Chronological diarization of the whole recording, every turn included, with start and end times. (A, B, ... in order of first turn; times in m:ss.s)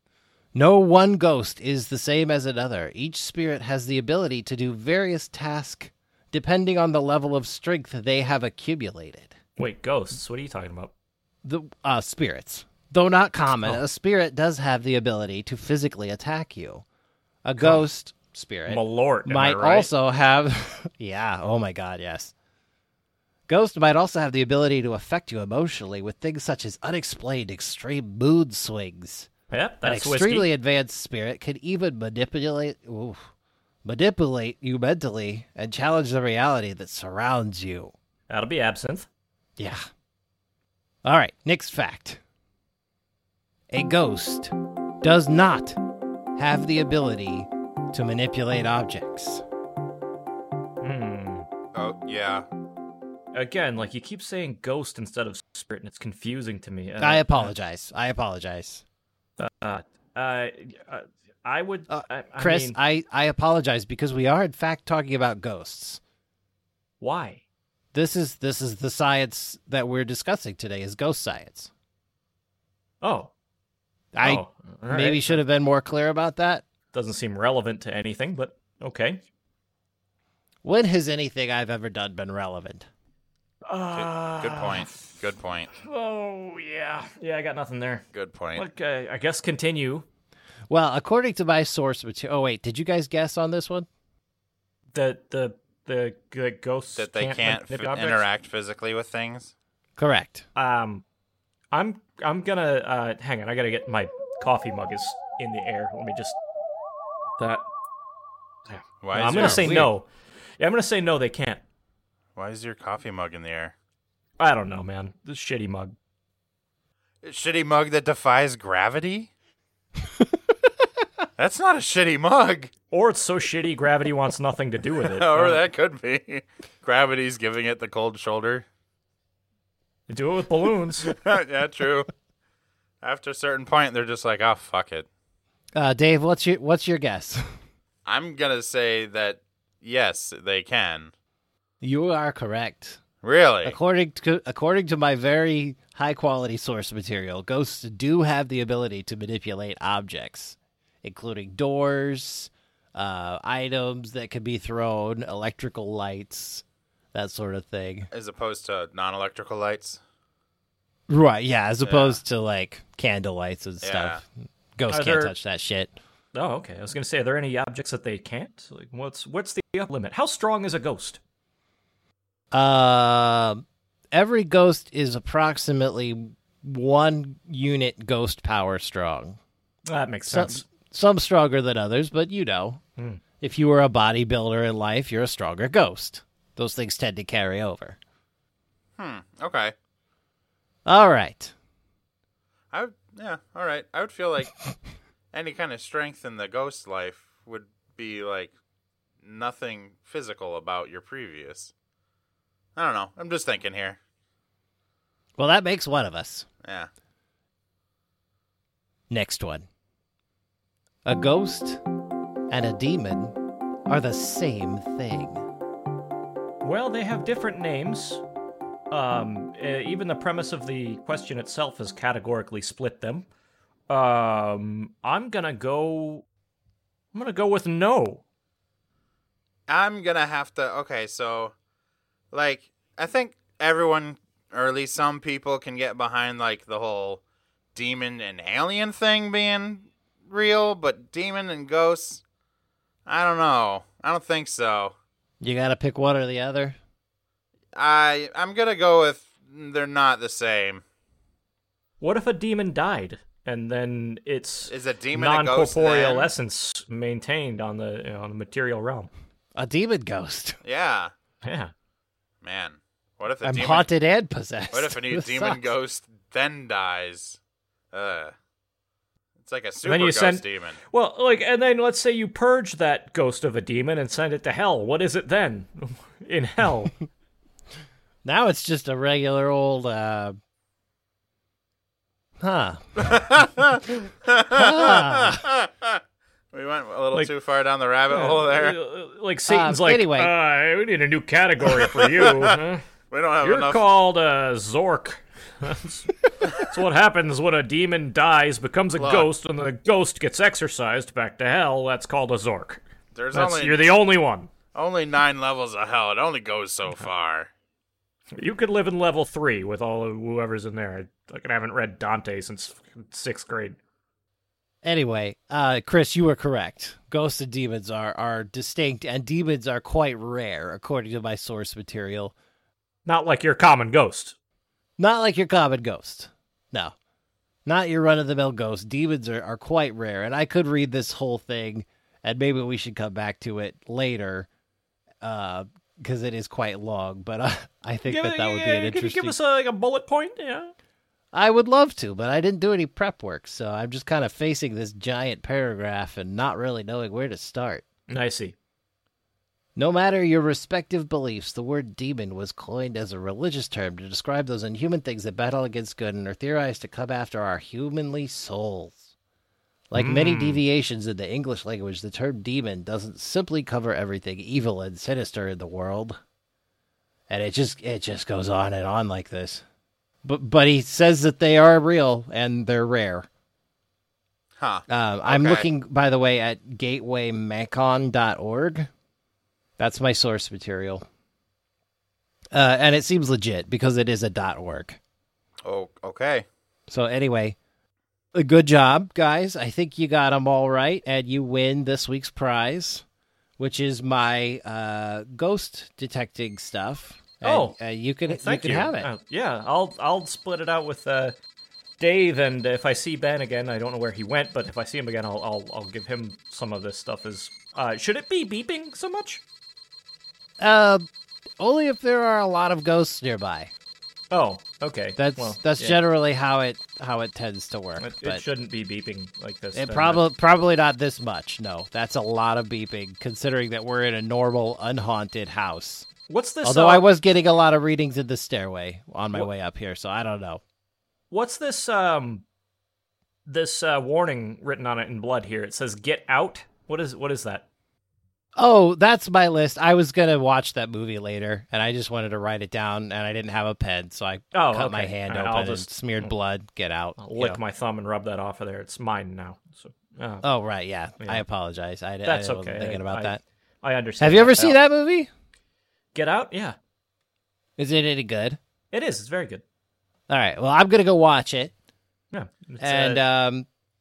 0:00.5-0:09.4 A
0:09.6-0:10.9 B
0:11.4-0:16.8 A
0:17.4-0:22.3 A
0:17.6-0:17.8 B
0:18.7-0:19.9 B
0:23.5-0:29.3 A
0:29.5-0:30.5 B
0:29.8-0:33.2 A
0:33.8-0:37.9 A
0:38.3-0:39.1 B
0:39.6-0:39.8 A
0:41.0-0:42.2 A
0:43.7-0:45.8 A
0:46.4-0:49.4 A
0:50.8-0:51.5 B
0:51.7-0:52.4 C
0:53.3-0:57.5 B
0:57.0-0:58.8 A
0:59.4-1:02.8 B
1:01.9-1:06.0 A
1:07.0-1:07.4 B
1:07.9-1:11.7 A
1:13.0-1:13.3 B
1:14.1-1:16.6 A
1:14.2-1:15.4 B
1:16.9-1:19.2 B
1:20.6-1:22.9 A
1:23.7-1:24.9 B
1:23.9-1:25.7 C
1:25.8-1:30.0 B
1:28.1-1:28.6 C
1:30.7-1:33.9 A
1:34.9-1:38.2 B
1:37.0-1:39.5 C
1:40.0-1:40.4 A
1:40.6-1:41.0 B
1:41.7-1:46.4 B
1:47.4-1:47.7 B
1:48.7-1:50.1 B
1:49.0-1:49.8 C
1:49.1-1:49.9 A
1:50.6-1:51.6 B
1:52.4-1:53.7 C
1:54.4-1:55.9 B
1:57.2-1:59.3 C
2:01.4-2:02.7 C
2:02.9-2:05.6 B
2:05.0-2:08.6 C
2:10.1-2:11.1 B
2:11.0-2:12.1 C
2:13.0-2:15.1 C
2:15.7-2:17.4 A
2:18.0-2:21.1 C
2:21.8-2:23.0 A
2:23.2-2:23.8 C
2:23.6-2:38.1 A
2:38.1-2:40.0 C
2:41.1-2:45.9 A
2:41.8-2:42.2 C
2:43.8-2:44.2 C
2:44.9-2:45.3 B
2:46.3-2:51.2 B
2:52.5-2:59.4 A
2:59.9-3:00.6 B
3:00.3-3:02.8 A
3:03.4-3:08.0 A
3:09.0-3:09.7 C
3:10.8-3:11.5 A
3:12.7-3:14.5 C
3:15.3-3:18.5 C
3:19.2-3:21.7 C
3:22.8-3:24.0 C
3:25.4-3:26.5 A
3:26.6-3:26.9 C
3:29.1-3:29.6 A
3:31.0-3:31.8 A
3:32.5-3:33.4 A
3:33.9-3:35.4 A
3:36.6-3:38.2 B
3:38.9-3:43.3 B
3:43.9-3:46.2 B
3:47.1-3:48.2 B
3:49.7-3:51.5 C
3:52.3-3:57.2 C
3:57.7-4:02.2 C
4:03.0-4:04.9 C
4:05.4-4:06.8 A
4:07.7-4:10.8 C
4:12.0-4:19.1 B
4:14.7-4:16.3 C
4:19.6-4:20.6 A
4:20.6-4:21.1 C
4:21.4-4:21.7 B
4:22.4-4:23.9 C
4:23.4-4:25.6 A
4:24.7-4:27.4 C
4:27.9-4:28.3 C
4:29.4-4:30.8 C
4:29.8-4:37.0 B
4:38.2-4:40.4 A
4:42.4-4:43.2 A
4:43.0-4:46.0 C
4:44.5-4:45.4 A
4:46.5-4:48.8 C
4:48.1-4:52.8 B
4:49.5-4:50.3 A
4:51.9-4:52.6 C
4:53.1-4:53.8 C
4:53.4-5:02.8 B
4:59.0-4:59.3 C
5:03.1-5:03.9 C
5:03.3-5:04.5 B
5:04.7-5:07.5 C
5:08.4-5:13.8 B
5:14.8-5:22.3 A
5:23.0-5:24.4 B
5:25.0-5:26.9 A
5:27.6-5:34.5 A
5:35.2-5:39.3 A
5:38.0-5:40.7 B
5:41.3-5:47.8 A
5:48.1-5:48.5 B
5:49.8-5:59.1 A
5:59.9-6:06.2 A
5:59.9-6:00.6 B
6:07.3-6:09.6 A
6:10.2-6:13.3 A
6:14.6-6:15.7 C
6:14.9-6:18.9 A
6:19.8-6:21.0 A
6:22.5-6:25.0 A
6:25.6-6:26.4 C
6:26.9-6:27.6 A
6:28.3-6:33.0 A
6:33.6-6:39.1 A
6:37.4-6:41.4 B
6:42.0-6:49.4 B
6:50.6-6:51.1 A
6:51.6-6:53.7 A
6:54.3-6:56.0 B
6:55.2-6:58.4 A
6:58.0-7:00.2 B
6:59.7-7:06.1 A
7:06.3-7:07.1 B
7:06.6-7:10.6 A
7:11.3-7:12.4 B
7:13.5-7:17.6 B
7:18.6-7:27.6 A
7:24.5-7:26.3 B
7:27.2-7:30.4 B
7:30.4-7:33.4 A
7:31.2-7:31.4 B
7:32.2-7:34.8 B
7:34.2-7:35.3 A
7:36.1-7:36.8 B
7:37.8-7:38.6 A
7:38.9-7:39.6 B
7:40.3-7:41.7 A
7:42.3-7:43.2 B
7:42.8-7:43.7 A